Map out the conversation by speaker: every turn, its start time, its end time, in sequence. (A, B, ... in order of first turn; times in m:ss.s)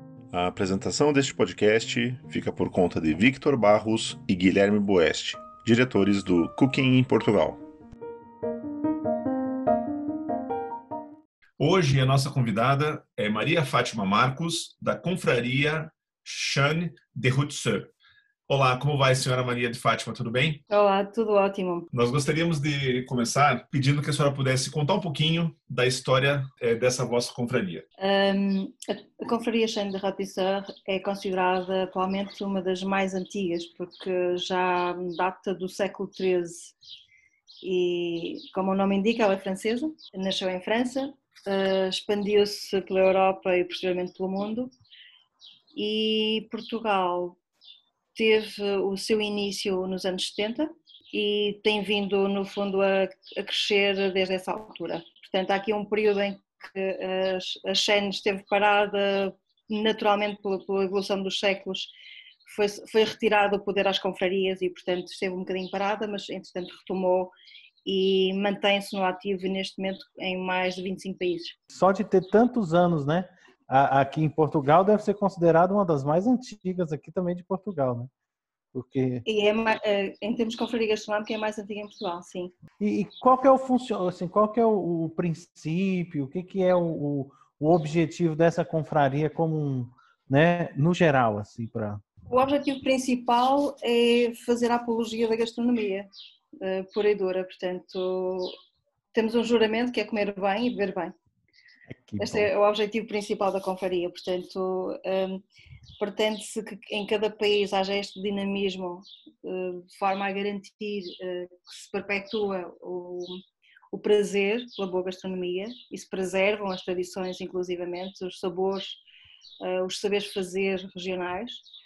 0:00.3-0:07.6 A
0:11.6-0:17.9 B
0:18.5-0:20.6 B
0:20.7-0:21.9 C
0:21.9-0:27.8 B
0:28.0-0:36.7 C
0:37.6-0:44.7 C
0:45.7-0:47.4 C
0:48.1-1:01.9 C
1:02.4-1:07.3 C
1:07.8-1:11.5 C
1:11.7-1:18.1 D
1:18.7-1:19.2 D
1:19.2-1:22.5 C
1:22.8-1:32.0 D
1:32.3-1:36.1 C
1:36.6-1:38.5 C
1:39.1-1:41.1 C
1:41.9-1:42.5 D
1:42.2-1:45.4 C
1:46.0-1:53.4 C
1:53.9-1:59.0 C
1:59.6-2:01.6 C